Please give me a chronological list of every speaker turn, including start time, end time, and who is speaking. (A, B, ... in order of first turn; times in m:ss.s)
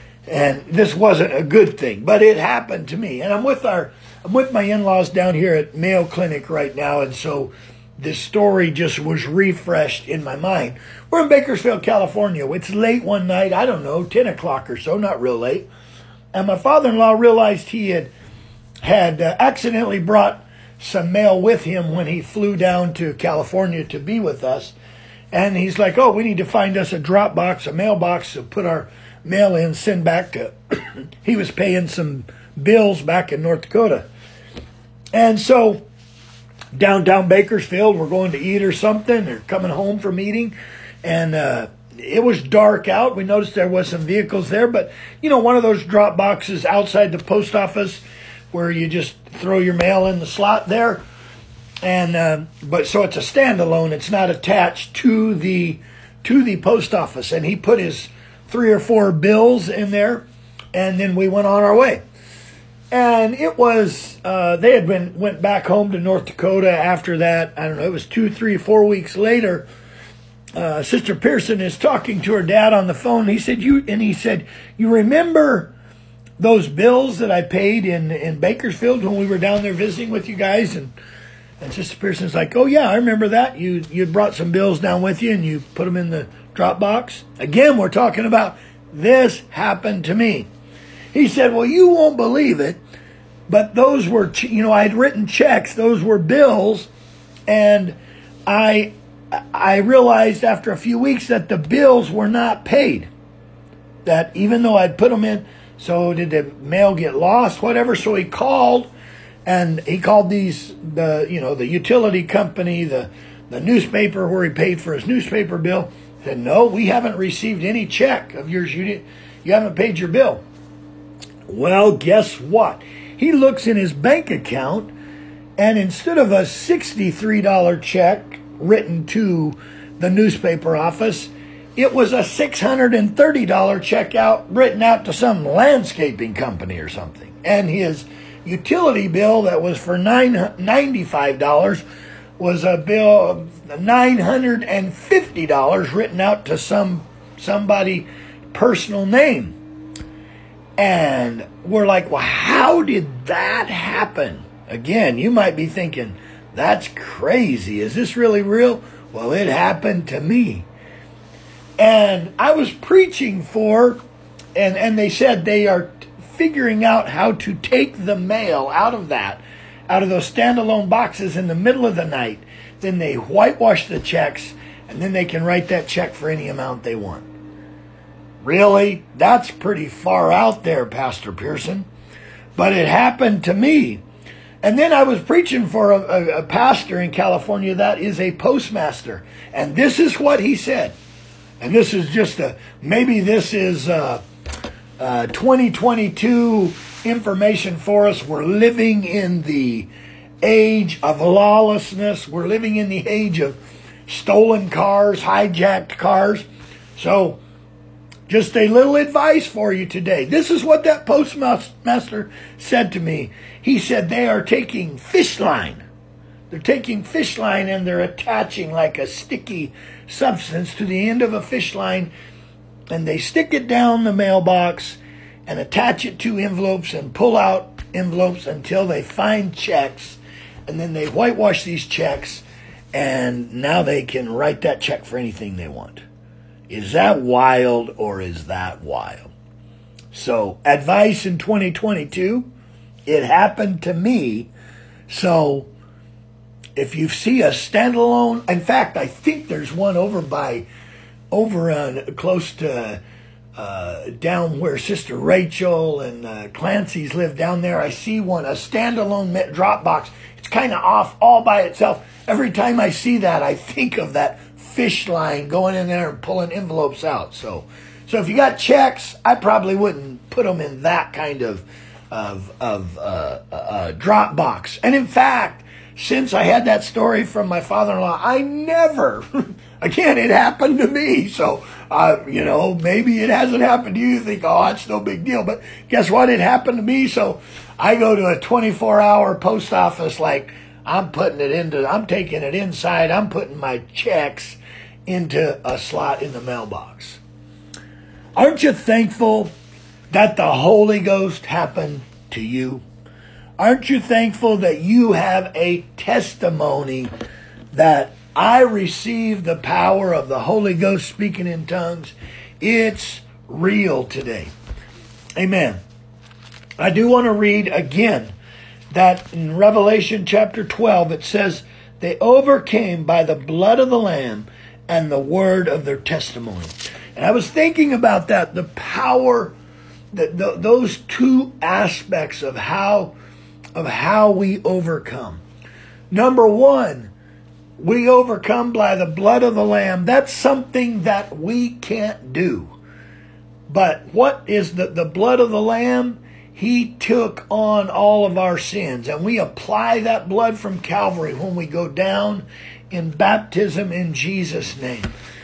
0:00.3-0:15.7 A
0:16.3-0:18.1 A
0:18.8-0:24.7 A
0:25.3-0:34.1 A
0:35.1-0:35.8 A
0:36.7-0:51.0 A
0:51.8-1:02.0 A
1:02.9-1:09.7 A
1:10.6-1:15.7 A
1:16.4-1:20.9 A
1:21.6-1:30.5 A
1:31.1-1:32.8 A
1:33.5-1:36.9 A
1:37.5-1:43.1 A
1:44.0-1:48.9 A
1:49.4-2:00.4 A
2:01.5-2:04.9 A
2:05.6-2:21.8 A
2:22.4-2:29.6 A
2:30.8-2:40.7 A
2:41.8-2:44.0 A
2:44.6-2:57.3 A
2:58.4-3:01.9 A
3:02.6-3:04.0 A
3:04.6-3:10.9 A
3:11.6-3:14.2 A
3:15.0-3:19.9 A
3:20.4-3:27.4 A
3:28.3-3:35.8 A
3:36.5-3:42.1 A
3:42.9-3:56.0 A
3:56.7-3:59.3 A
4:00.1-4:02.5 A
4:03.0-4:04.5 A
4:05.1-4:05.7 A
4:06.8-4:10.7 A
4:11.3-4:13.0 A
4:13.6-4:39.2 A
4:39.8-4:57.2 A
4:58.4-4:59.5 A
5:00.1-5:02.8 A
5:03.6-5:07.1 A
5:07.7-5:14.5 A
5:15.4-5:15.8 A
5:16.8-5:18.3 A
5:18.9-5:29.5 A
5:30.1-5:33.1 A
5:33.8-5:35.4 A
5:36.1-5:37.1 A
5:37.8-5:42.7 A
5:43.7-5:55.1 A